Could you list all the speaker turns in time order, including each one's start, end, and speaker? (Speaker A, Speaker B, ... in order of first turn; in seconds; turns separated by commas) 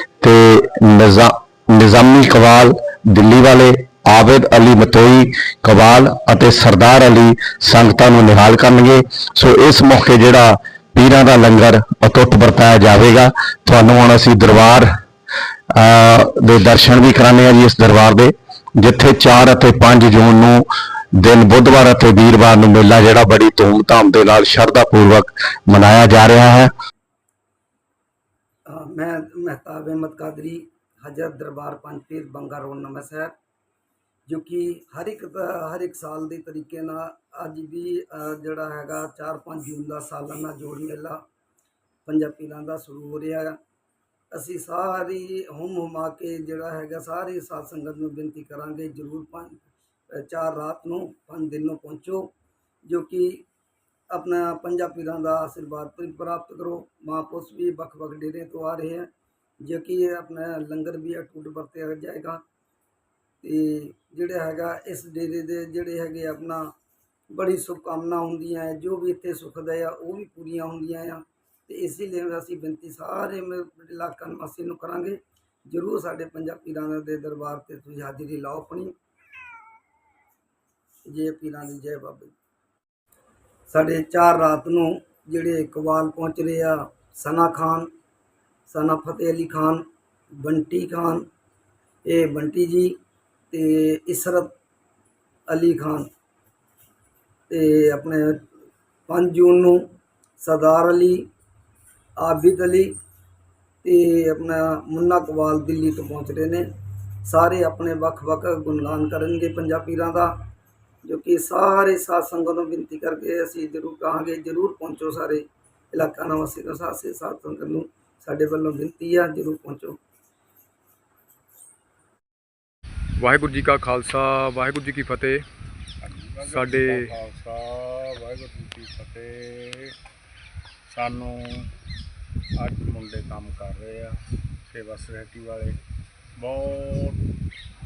Speaker A: 0.2-14.9, Speaker A: 15.7-26.7, Speaker B: 28.6-33.3, Speaker B: 34.2-41.2, Speaker B: 42.0-43.6, Speaker B: 44.3-52.3, Speaker B: 52.8-53.4, Speaker B: 54.1-59.1, Speaker B: 59.6-62.4, Speaker B: 63.4-66.6, Speaker B: 67.3-78.9, Speaker B: 81.1-82.3, Speaker B: 83.7-87.9, Speaker B: 88.7-89.8, Speaker B: 90.4-91.2, Speaker B: 92.0-93.0, Speaker B: 93.5-94.5, Speaker B: 95.5-96.1, Speaker B: 97.5-98.4, Speaker B: 99.1-99.8, Speaker B: 100.4-101.3, Speaker B: 102.2-102.9, Speaker B: 103.8-106.7, Speaker B: 107.2-110.3, Speaker B: 111.0-120.0, Speaker C: 123.2-125.4, Speaker D: 126.0-129.9, Speaker C: 126.5-127.1, Speaker D: 130.9-131.7, Speaker D: 132.6-135.8, Speaker D: 136.4-137.2